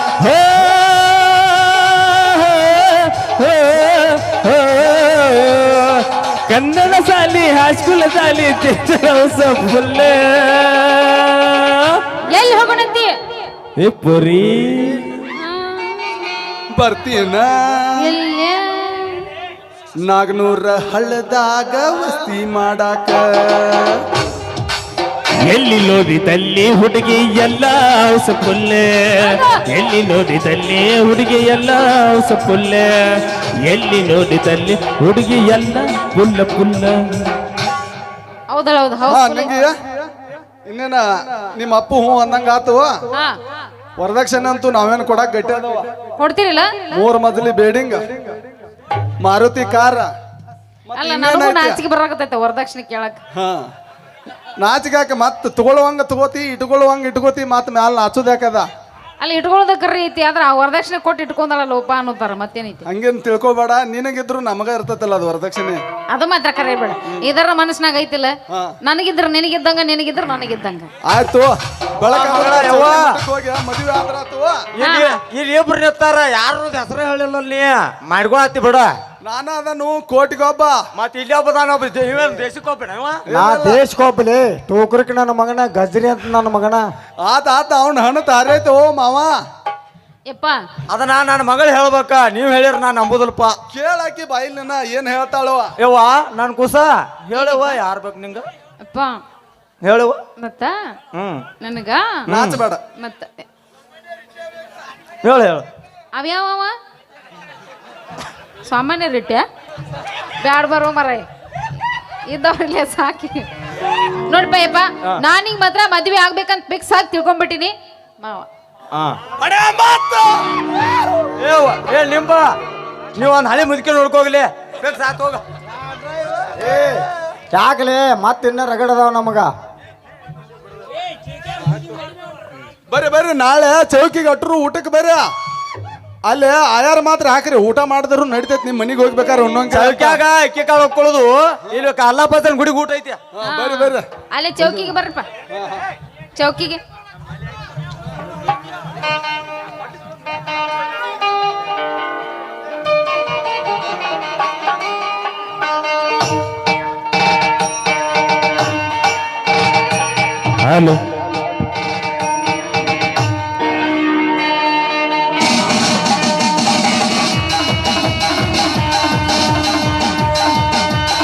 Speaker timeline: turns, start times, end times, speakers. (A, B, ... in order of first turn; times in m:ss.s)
0:00.2-0:12.0 A
0:12.3-0:13.1 B
0:13.8-0:15.3 A
0:15.3-0:16.2 B
0:16.7-0:18.1 C
0:18.0-0:19.3 B
0:20.0-0:24.0 C
0:25.4-0:33.0 A
0:29.2-0:29.6 B
0:33.6-0:37.2 A
0:38.5-0:39.5 B
0:39.1-0:40.1 C
0:40.6-0:43.0 C
0:43.1-0:43.4 B
0:44.0-0:45.9 C
0:46.2-0:47.0 B
0:46.9-0:48.3 C
0:49.2-0:50.1 C
0:50.9-0:51.8 C
0:51.0-0:53.2 B
0:53.3-0:53.7 C
0:54.6-0:58.7 C
0:59.2-1:02.8 B
1:02.9-1:05.8 C
1:06.1-1:10.9 B
1:11.0-1:14.6 C
1:12.1-1:13.2 D
1:14.7-1:18.9 D
1:14.8-1:15.2 B
1:19.2-1:20.8 C
1:20.9-1:23.2 D
1:23.3-1:23.8 C
1:23.3-1:26.8 E
1:27.2-1:29.3 C
1:30.3-1:30.6 B
1:30.9-1:33.6 D
1:33.7-1:35.7 C
1:35.8-1:38.4 D
1:37.3-1:37.8 B
1:38.8-1:39.2 B
1:39.8-1:40.2 D
1:40.4-1:40.8 B
1:41.1-1:41.4 D
1:41.6-1:42.2 B
1:42.2-1:42.6 D
1:42.3-1:42.8 C
1:43.0-1:43.5 B
1:45.2-1:45.6 D
1:46.1-1:46.7 B
1:48.6-1:49.4 B
1:50.4-1:51.2 B
1:52.3-1:53.5 B
1:54.3-1:58.5 B
1:58.9-2:00.4 D
2:01.4-2:02.6 D
2:03.1-2:05.4 D
2:06.6-2:09.5 E
2:12.9-2:15.2 C
2:16.2-2:20.2 C
2:19.7-2:23.2 D
2:23.3-2:24.0 C
2:23.4-2:25.2 B
2:25.5-2:25.8 C
2:26.4-2:26.8 B
2:40.6-2:41.0 A